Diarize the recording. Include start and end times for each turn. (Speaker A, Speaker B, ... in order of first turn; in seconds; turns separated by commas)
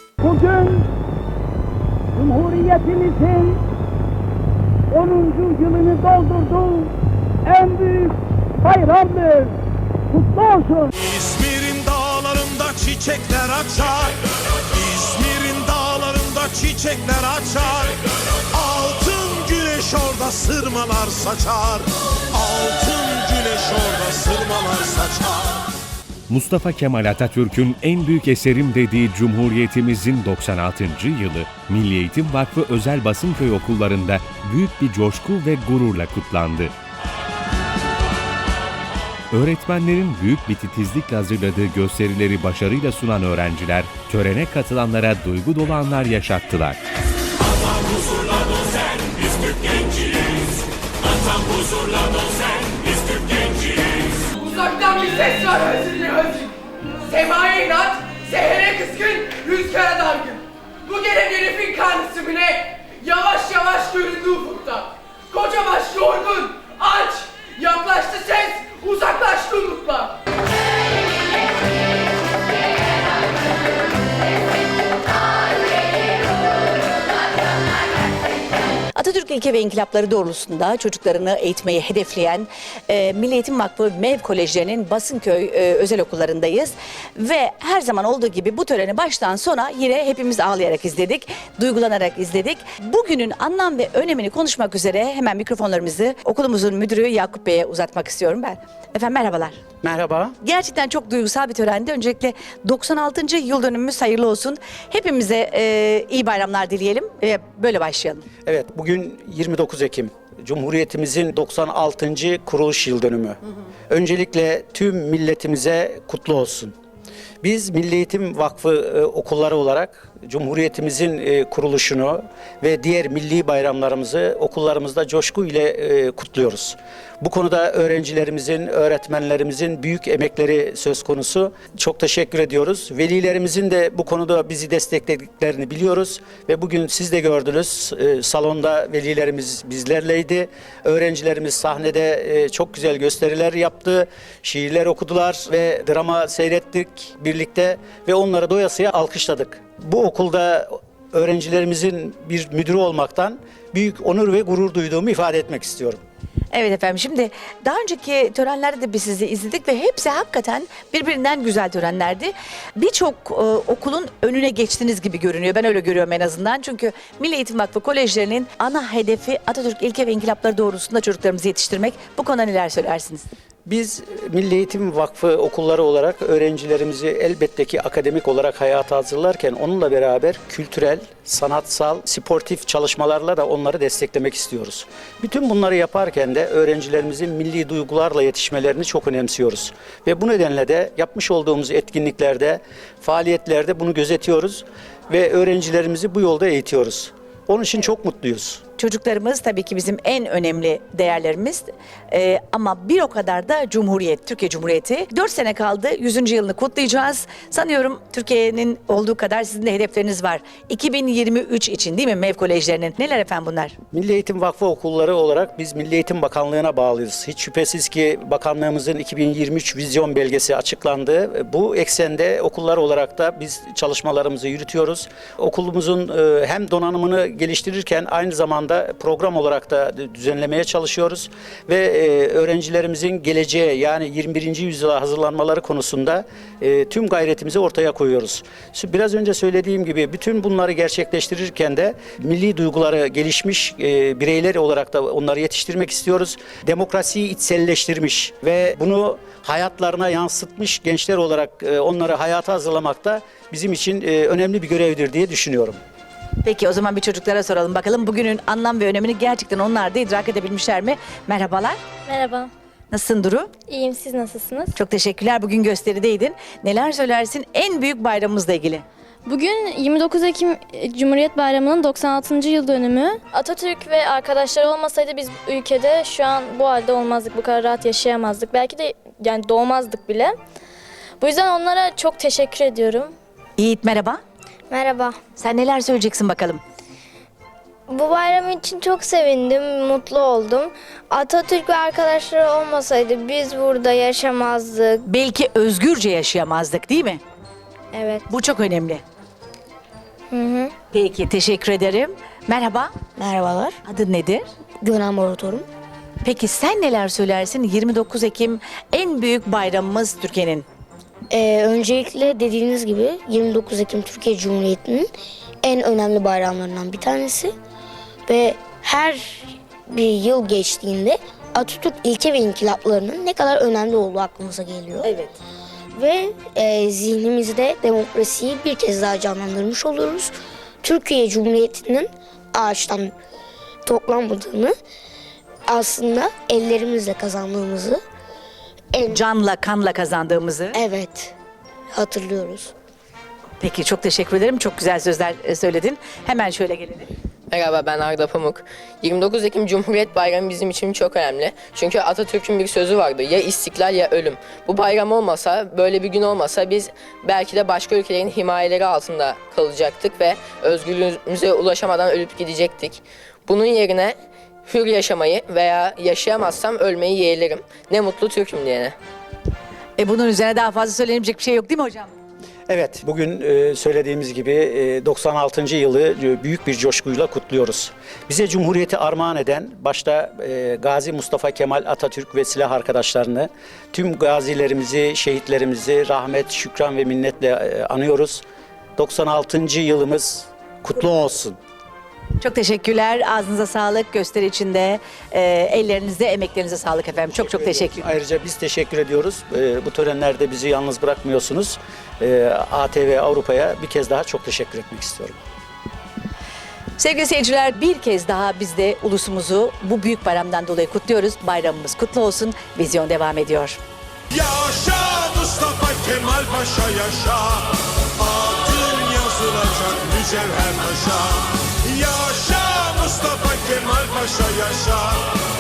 Speaker A: 0.2-0.8, Speaker A: 2.1-3.6, Speaker A: 4.9-6.9, Speaker A: 7.5-9.5, Speaker A: 10.1-10.9, Speaker B: 11.0-14.2, Speaker B: 14.7-17.9, Speaker B: 18.5-25.6, Speaker C: 26.3-36.7, Speaker C: 39.3-46.8, Speaker D: 54.5-56.2, Speaker D: 57.0-61.0, Speaker E: 61.1-61.5, Speaker D: 61.6-62.1, Speaker D: 62.9-64.7, Speaker D: 65.3-66.9, Speaker D: 67.4-70.1, Speaker F: 78.9-99.6, Speaker G: 99.8-100.3, Speaker F: 100.4-108.2, Speaker G: 108.5-113.4, Speaker G: 113.9-116.7, Speaker G: 117.4-156.0, Speaker F: 156.5-173.3, Speaker G: 173.7-198.6, Speaker F: 198.8-213.8, Speaker G: 213.9-255.8, Speaker F: 256.4-261.8, Speaker H: 262.1-262.5, Speaker F: 262.9-263.5, Speaker H: 263.7-264.7, Speaker F: 264.7-268.8, Speaker H: 269.2-280.4, Speaker H: 281.2-283.1, Speaker F: 283.6-284.2, Speaker I: 284.7-285.2, Speaker F: 285.4-286.6, Speaker I: 287.9-295.1, Speaker F: 295.0-297.2, Speaker I: 297.9-298.3, Speaker F: 298.3-299.0, Speaker I: 300.3-300.8, Speaker F: 300.9-302.9, Speaker J: 303.2-303.8, Speaker F: 303.8-304.4, Speaker J: 304.8-305.6, Speaker F: 306.2-310.6, Speaker J: 311.3-315.1, Speaker J: 315.6-317.5, Speaker J: 318.3-325.1, Speaker J: 325.9-333.1, Speaker J: 333.9-334.7, Speaker J: 335.7-338.0, Speaker J: 338.9-339.2, Speaker F: 339.1-340.8, Speaker J: 340.7-341.3, Speaker J: 341.9-342.7, Speaker F: 343.6-347.1, Speaker E: 347.5-369.0, Speaker F: 370.0-372.1, Speaker G: 372.7-388.4, Speaker G: 389.0-391.6, Speaker F: 392.4-398.0, Speaker G: 397.3-405.4, Speaker F: 407.0-413.8, Speaker B: 414.3-425.2